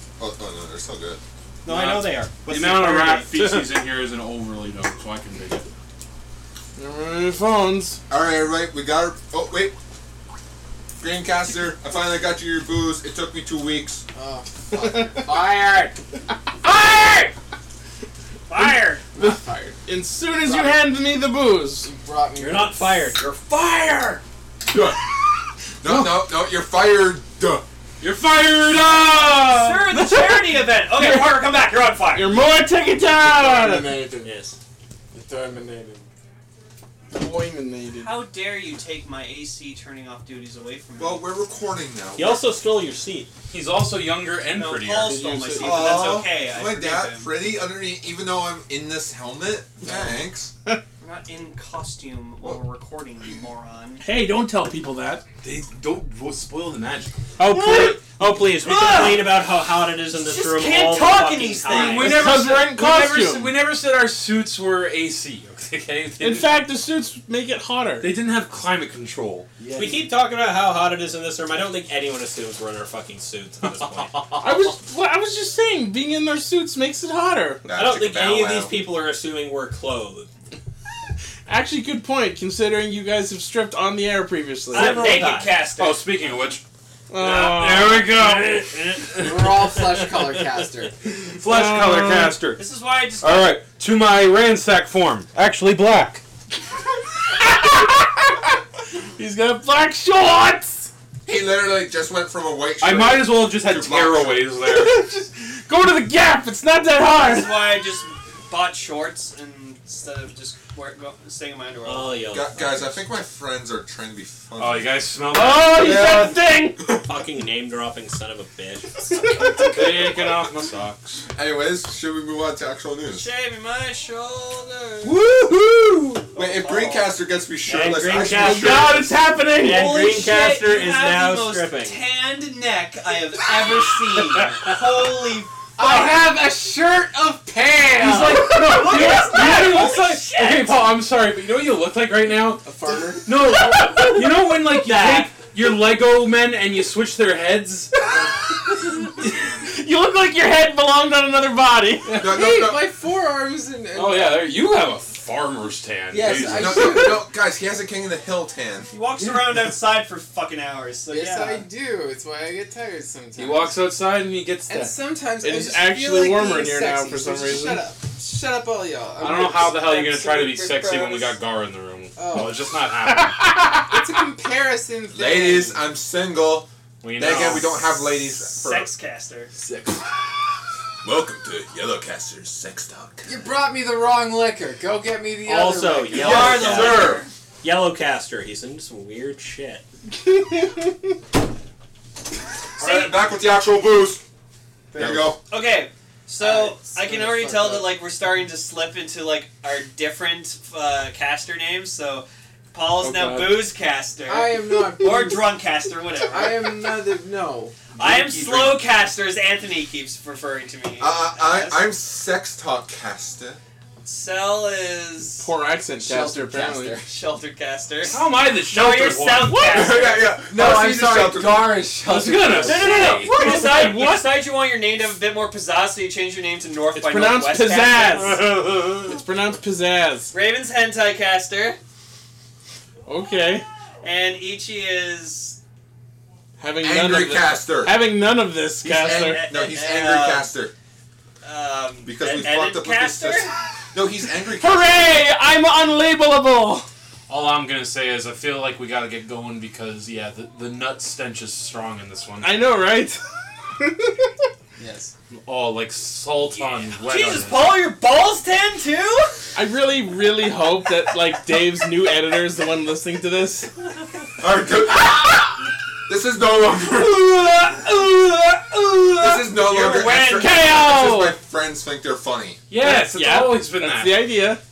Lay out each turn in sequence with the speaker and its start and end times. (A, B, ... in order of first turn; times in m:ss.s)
0:00.2-0:01.2 A
0:01.6-0:03.5 B
0:01.6-0:05.7 C
0:06.8-0:08.0 D
0:08.1-0:09.7 A
0:11.0-0:14.0 A
0:14.1-0:16.0 E
0:14.8-0:15.3 D
0:16.7-0:17.3 B
0:18.5-0:19.0 F
0:18.5-0:21.9 D
0:19.1-0:19.8 E
0:20.4-0:20.8 E
0:21.8-0:23.0 E
0:22.4-0:24.2 F
0:24.7-0:25.1 A
0:25.8-0:27.6 A
0:25.8-0:26.2 D
0:28.0-0:29.8 C
0:29.4-0:32.4 B
0:29.9-0:30.4 D
0:30.9-0:31.3 D
0:32.1-0:34.3 D
0:33.3-0:34.1 E
0:34.2-0:34.6 F
0:35.1-0:36.0 E
0:37.1-0:38.1 D
0:37.9-0:41.2 B
0:41.0-0:42.5 A
0:42.2-0:43.3 F
0:43.5-0:45.2 C
0:44.5-0:47.3 B
0:45.0-0:45.8 D
0:45.5-0:50.5 A
0:51.0-0:54.1 B
0:54.0-0:55.2 D
0:55.4-0:57.1 C
0:57.4-1:02.1 F
0:57.5-0:57.9 D
0:57.6-0:58.0 B
0:58.6-0:59.4 B
1:00.1-1:02.2 B
1:01.7-1:06.7 C
1:01.7-1:03.5 D
1:06.2-1:08.1 D
1:08.0-1:09.5 C
1:09.6-1:09.9 E
1:09.7-1:14.2 F
1:13.6-1:14.7 C
1:14.4-1:17.8 D
1:17.6-1:18.8 A
1:17.8-1:20.3 F
1:21.4-1:24.9 D
1:24.7-1:25.5 F
1:24.7-1:26.5 B
1:24.9-1:26.6 C
1:27.1-1:28.1 D
1:27.2-1:29.8 C
1:28.1-1:28.6 F
1:29.2-1:30.9 E
1:31.2-1:32.6 C
1:31.4-1:32.4 D
1:32.6-1:33.6 B
1:33.2-1:36.2 C
1:37.2-1:40.9 D
1:41.2-1:44.4 A
1:42.8-1:45.0 C
1:44.5-1:47.7 D
1:47.2-1:52.2 B
1:51.8-1:53.0 F
1:52.3-1:55.1 A
1:54.6-1:56.3 C
1:55.3-1:56.8 D
1:55.8-1:57.1 A
1:57.0-1:59.6 F
1:59.5-2:01.2 C
2:01.3-2:03.2 A
2:03.1-2:05.2 B
2:05.1-2:06.2 D
2:05.1-2:05.6 C
2:06.3-2:07.1 B
2:06.3-2:09.1 A
2:07.6-2:08.7 F
2:08.2-2:09.9 D
2:09.6-2:12.0 F
2:09.6-2:16.2 B
2:15.8-2:19.0 E
2:17.9-2:22.6 C
2:18.6-2:20.9 B
2:22.6-2:23.3 E
2:23.2-2:27.9 C
2:23.5-2:24.1 D
2:24.9-2:25.4 F
2:28.0-2:32.2 D
2:32.1-2:32.9 A
2:32.1-2:32.4 C
2:32.2-2:34.5 E
2:33.9-2:37.2 C
2:36.1-2:37.2 E
2:36.5-2:38.9 A
2:38.9-2:41.6 B
2:41.1-2:43.8 E
2:43.4-2:44.9 C
2:44.7-2:51.4 E
2:45.4-2:47.8 D
2:49.2-2:53.5 C
2:52.2-2:52.6 E
2:53.1-2:54.0 D
2:53.8-2:55.9 E
2:55.1-2:58.9 A
2:57.0-2:57.9 C
2:58.4-2:59.5 B
2:59.6-3:00.1 E
3:01.0-3:03.4 A
3:03.2-3:06.4 E
3:05.4-3:09.8 F
3:06.1-3:07.2 C
3:06.2-3:07.0 A
3:06.2-3:07.3 B
3:12.8-3:13.2 B
3:12.8-3:14.2 A
3:14.9-3:15.3 E
3:14.9-3:15.4 A
3:15.5-3:27.0 B
3:16.4-3:17.9 E
3:23.0-3:23.6 D
3:24.2-3:25.5 E
3:26.2-3:27.8 E
3:28.0-3:28.9 C
3:28.0-3:31.9 B
3:31.0-3:33.6 A
3:34.0-3:35.5 B
3:35.4-3:37.0 D
3:36.0-3:37.1 E
3:37.0-3:40.4 B
3:38.0-3:39.8 C
3:39.7-3:41.9 A
3:40.4-3:43.1 E
3:42.0-3:43.8 C
3:42.6-3:49.1 B
3:43.2-3:44.2 D
3:46.9-3:48.5 D
3:49.0-3:50.3 D
3:50.3-3:51.8 B
3:53.0-3:53.6 D
3:54.0-3:55.6 B
3:56.6-3:59.4 D
3:56.8-3:58.0 A
3:58.8-4:00.5 B
3:59.0-4:00.7 A
4:01.4-4:03.5 B
4:02.0-4:05.2 A
4:04.3-4:06.9 D
4:07.3-4:12.5 C
4:12.4-4:13.2 D
4:13.7-4:14.4 D
4:14.8-4:15.1 E
4:15.3-4:17.8 C
4:16.5-4:19.5 B
4:19.5-4:23.7 D
4:24.4-4:27.4 A
4:27.0-4:30.7 B
4:29.2-4:32.6 A
4:30.4-4:31.4 D
4:32.7-4:34.3 C
4:32.8-4:34.6 D